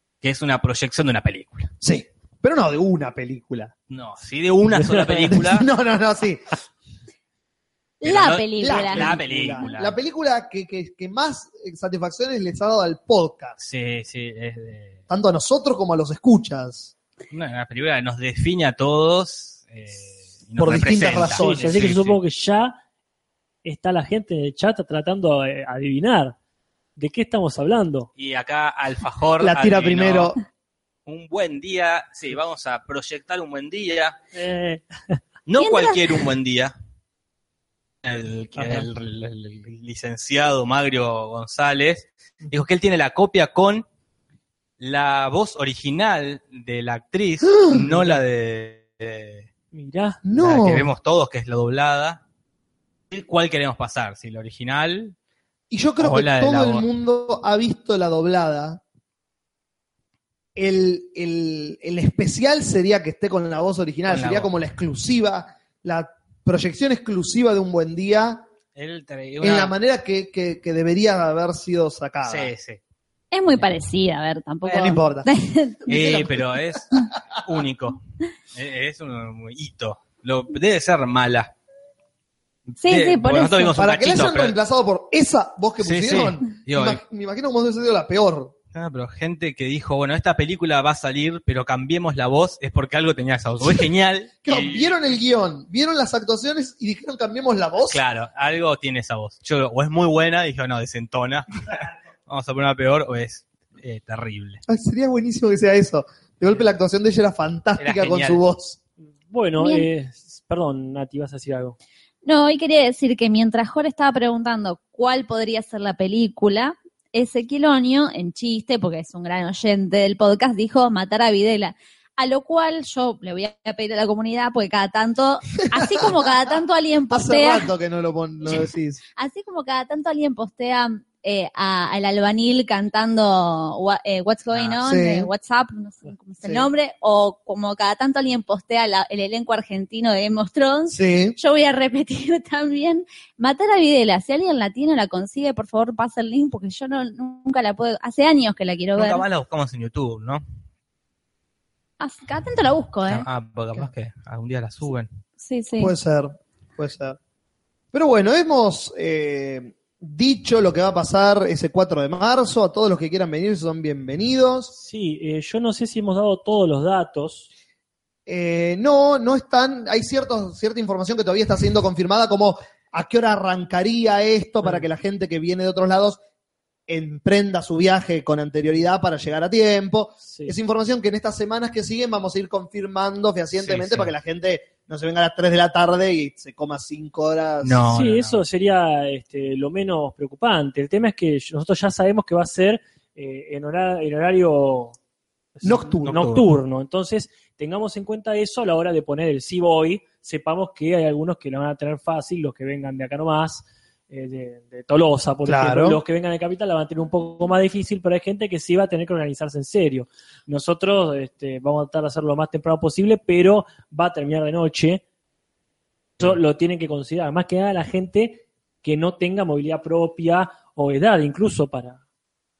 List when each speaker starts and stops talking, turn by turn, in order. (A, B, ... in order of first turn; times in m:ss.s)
0:00.2-0:01.7 A
0:01.8-0:03.7 B
0:03.9-0:05.7 A
0:04.8-0:05.3 C
0:05.3-0:06.4 B
0:08.0-0:09.1 D
0:08.0-0:10.0 A
0:08.6-0:13.6 B
0:13.6-0:15.0 A
0:15.1-0:16.9 B
0:17.3-0:22.2 A
0:20.6-0:21.9 B
0:21.3-0:22.8 C
0:23.6-0:26.4 C
0:27.0-0:28.1 C
0:28.2-0:30.3 A
0:29.4-0:30.4 B
0:31.1-0:34.2 A
0:34.3-0:35.2 C
0:35.5-0:36.7 A
0:35.6-0:36.2 D
0:38.0-0:43.8 A
0:38.6-0:38.9 C
0:44.8-0:49.5 A
0:49.7-0:50.2 C
0:50.2-0:50.9 B
0:50.4-0:52.2 A
0:53.1-0:55.2 A
0:55.7-0:58.8 B
0:56.0-0:56.9 A
1:00.6-1:08.4 B
1:04.1-1:04.5 A
1:08.8-1:09.7 A
1:09.4-1:12.5 B
1:12.2-1:12.8 A
1:13.3-1:16.2 D
1:14.6-1:15.3 B
1:15.9-1:16.3 B
1:15.9-1:18.0 A
1:18.6-1:21.5 A
1:22.7-1:24.6 A
1:22.8-1:23.8 D
1:23.8-1:28.5 B
1:25.8-1:27.0 A
1:28.7-1:34.9 A
1:34.4-1:38.0 B
1:37.9-1:44.6 A
1:44.7-1:48.8 B
1:47.8-1:48.4 A
1:49.3-1:51.8 C
1:49.6-1:49.9 D
1:52.2-2:07.7 D
2:05.8-2:06.3 B
2:07.1-2:09.0 B
2:09.2-2:29.2 D
2:14.8-2:15.3 B
2:16.4-2:16.7 B
2:20.9-2:21.4 B
2:29.0-2:30.4 A
2:32.0-2:33.3 D
2:33.0-2:35.1 A
2:35.4-2:35.9 D
2:35.8-2:37.2 B
2:37.9-2:44.7 B
2:44.7-2:47.5 C
2:48.3-2:56.2 B
2:56.9-3:07.8 B
3:00.2-3:00.6 C
3:03.6-3:04.1 A
3:07.6-3:08.4 A
3:07.9-3:15.0 C
3:15.6-3:35.0 C
3:15.6-3:16.3 B
3:16.1-3:16.4 A
3:25.4-3:26.0 B
3:36.2-3:42.0 C